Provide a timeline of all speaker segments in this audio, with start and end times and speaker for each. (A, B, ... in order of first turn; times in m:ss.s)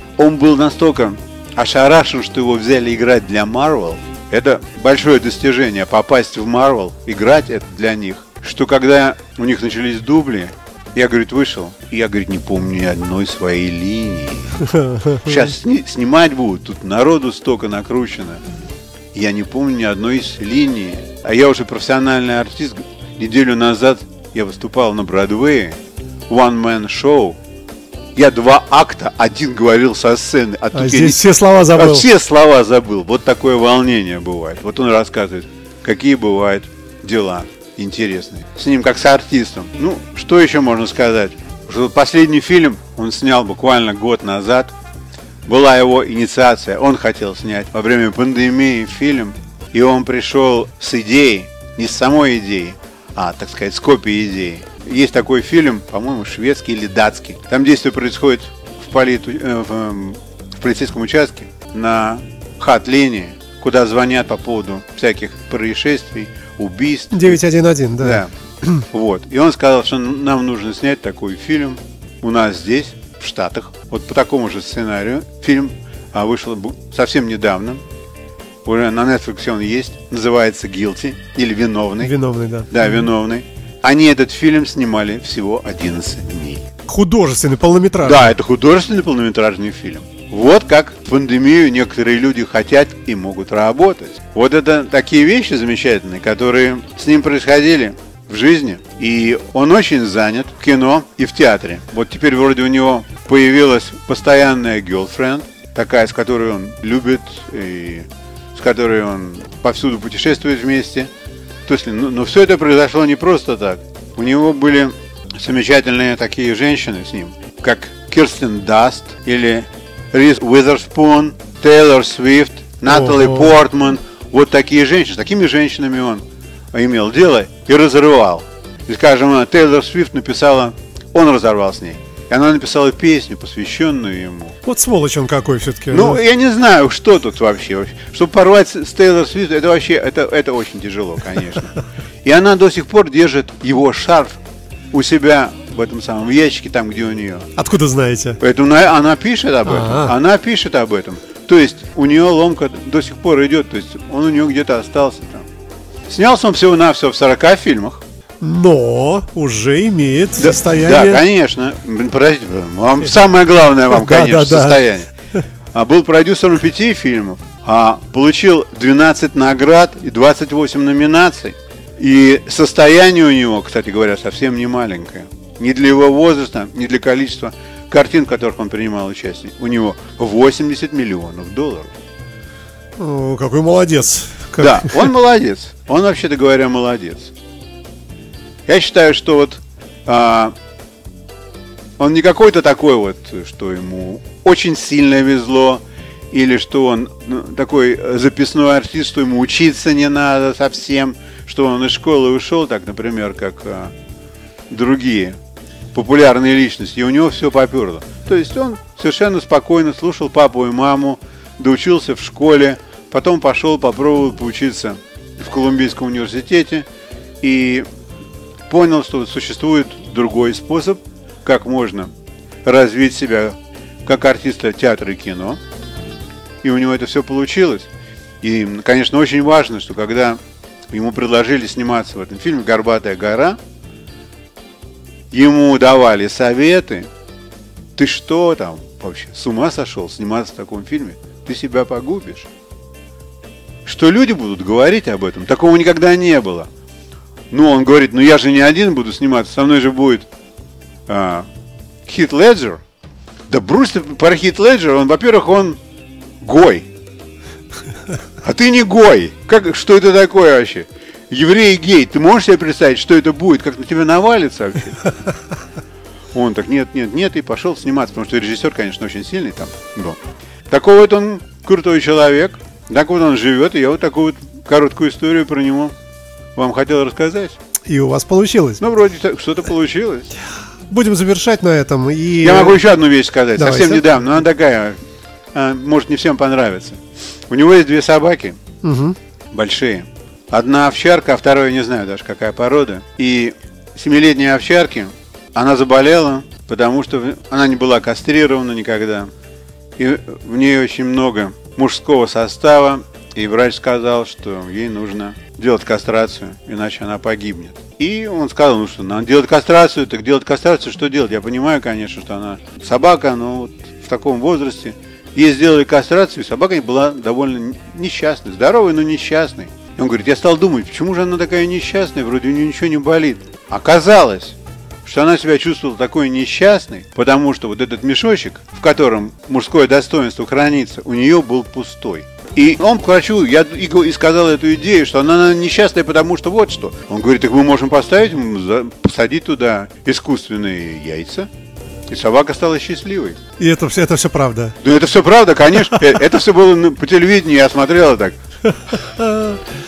0:00.2-0:14.6 A
0:14.6-0:15.4 B
0:15.2-0:18.4 A
0:19.1-0:27.4 A
0:28.1-0:44.7 A
0:30.7-0:32.1 B
0:45.4-1:07.4 A
1:07.1-1:08.8 B
1:08.0-1:17.8 A
1:18.6-1:22.1 A
1:22.0-1:22.7 B
1:22.7-1:26.6 A
1:26.8-1:28.3 B
1:28.0-1:51.1 A
1:51.6-2:14.6 A
2:02.9-2:03.5 B
2:14.6-2:16.2 B
2:15.9-2:21.7 A
2:22.2-2:24.4 A
2:24.9-2:27.5 A
2:27.6-2:28.4 B
2:28.4-2:35.5 A
2:29.6-2:30.1 B
2:36.1-2:38.0 A
2:38.4-2:41.2 B
2:40.4-2:45.1 A
2:43.9-2:44.8 B
2:45.7-3:01.9 A
3:03.0-3:05.1 B
3:04.6-3:07.3 A
3:08.6-3:10.5 A
3:12.0-3:23.9 A
3:24.7-3:25.4 A
3:25.9-3:36.9 A
3:37.4-3:37.8 A
3:38.7-3:42.1 A
3:42.6-3:45.6 A
3:46.6-3:47.9 A
3:48.4-3:50.4 A
3:50.9-3:53.6 A
3:55.3-3:57.1 A
3:58.0-4:02.5 A
4:03.8-4:06.7 A
4:07.5-4:10.3 A
4:11.1-4:11.5 A
4:12.0-4:12.8 A
4:13.5-4:15.8 A
4:16.4-4:16.9 A
4:18.4-4:25.0 A
4:26.3-4:30.2 A
4:30.7-4:35.9 A
4:36.6-4:37.6 A
4:37.8-4:38.8 B
4:38.8-4:40.3 A
4:40.9-4:42.8 B
4:42.4-4:45.0 A
4:43.6-4:44.1 B
4:45.5-4:48.6 A
4:48.8-4:49.2 B
4:49.5-4:59.3 A
5:00.0-5:41.5 A
5:42.1-5:43.4 A
5:43.6-5:44.8 B
5:44.8-5:48.4 A
5:48.9-5:49.6 B